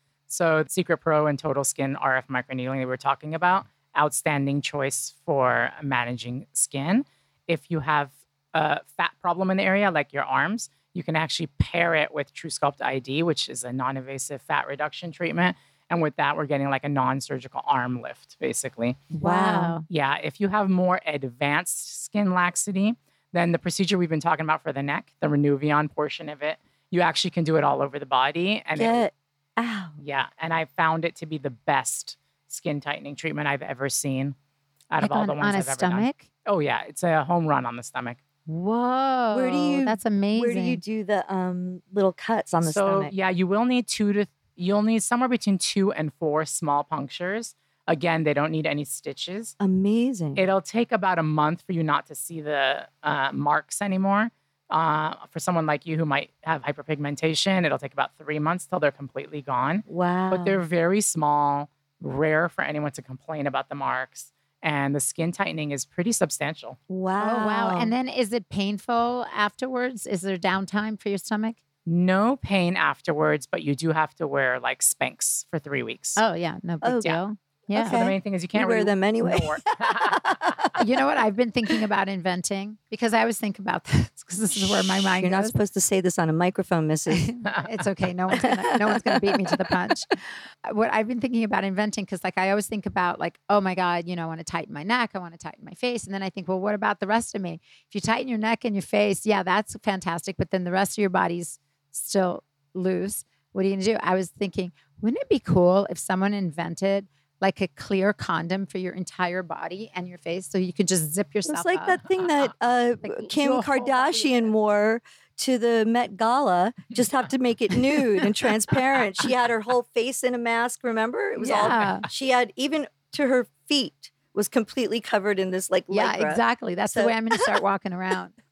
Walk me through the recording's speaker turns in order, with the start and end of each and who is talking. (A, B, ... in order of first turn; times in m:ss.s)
0:00.3-0:19.1 A
0:19.1-0:19.8 B
0:19.2-0:19.8 C
0:19.9-0:29.0 A
0:28.8-0:30.0 C
0:30.0-0:34.3 A
0:34.9-0:38.2 A
0:35.0-0:36.3 B
0:38.5-0:40.8 B
0:39.3-0:43.1 C
0:42.6-0:49.5 A
0:49.6-0:50.4 C
0:50.4-1:06.8 A
0:59.9-1:00.6 C
1:06.9-1:07.9 C
1:07.2-1:11.6 B
1:11.8-1:16.2 A
1:16.2-1:18.0 B
1:16.8-1:17.1 C
1:17.7-1:20.7 C
1:17.8-1:20.7 A
1:20.8-1:25.5 B
1:24.6-1:27.3 C
1:27.1-1:52.0 B
1:27.4-1:27.7 A
1:28.4-1:29.5 C
1:51.5-2:07.2 C
1:53.0-1:54.4 B
2:01.4-2:02.1 B
2:01.7-2:02.0 A
2:05.9-2:08.3 B